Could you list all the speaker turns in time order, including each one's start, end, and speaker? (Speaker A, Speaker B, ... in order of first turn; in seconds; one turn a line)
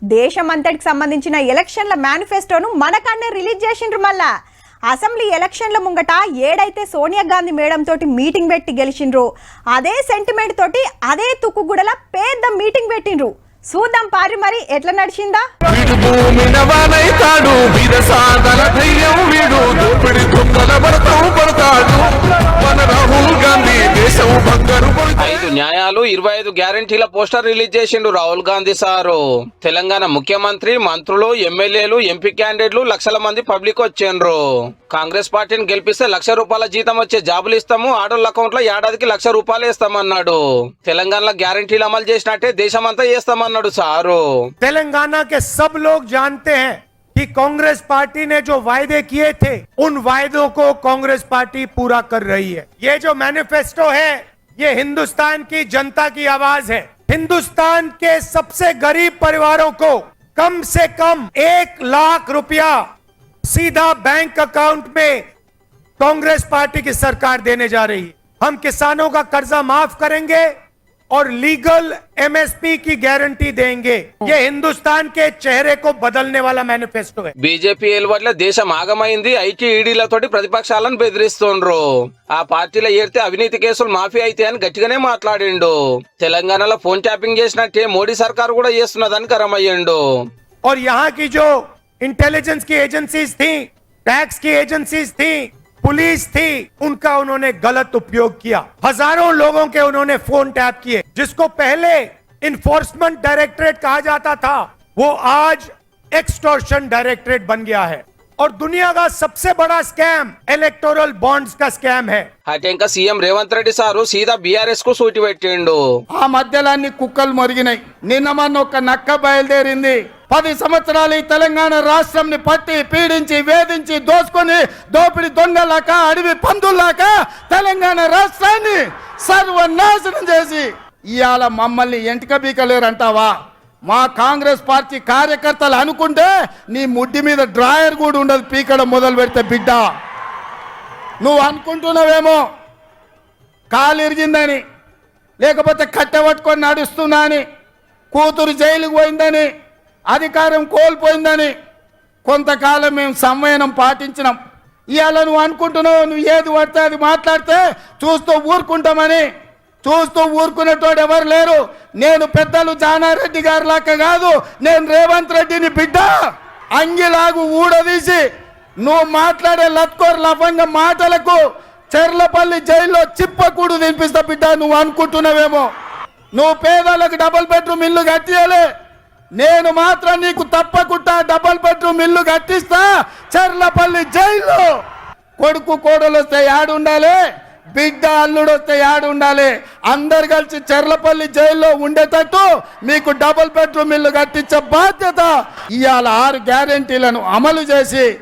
Speaker A: 0.1-4.3
Speaker A: 4.9-15.4
Speaker B: 15.7-25.2
Speaker C: 25.2-44.2
Speaker D: 44.6-62.8
Speaker D: 63.4-65.2
Speaker D: 66.0-70.5
Speaker D: 71.1-77.3
Speaker C: 77.4-90.0
Speaker D: 90.6-112.3
Speaker C: 112.5-115.8
Speaker E: 116.2-133.3
Speaker E: 133.9-139.8
Speaker E: 141.2-142.4
Speaker E: 143.7-144.6
Speaker E: 145.4-147.4
Speaker E: 148.1-149.5
Speaker E: 150.1-151.5
Speaker E: 152.2-154.3
Speaker E: 154.9-159.2
Speaker E: 159.8-166.1
Speaker E: 166.8-168.2
Speaker E: 168.8-171.4
Speaker E: 171.9-175.7
Speaker E: 176.4-178.7
Speaker E: 179.4-184.7
Speaker E: 185.4-187.2
Speaker E: 187.8-198.1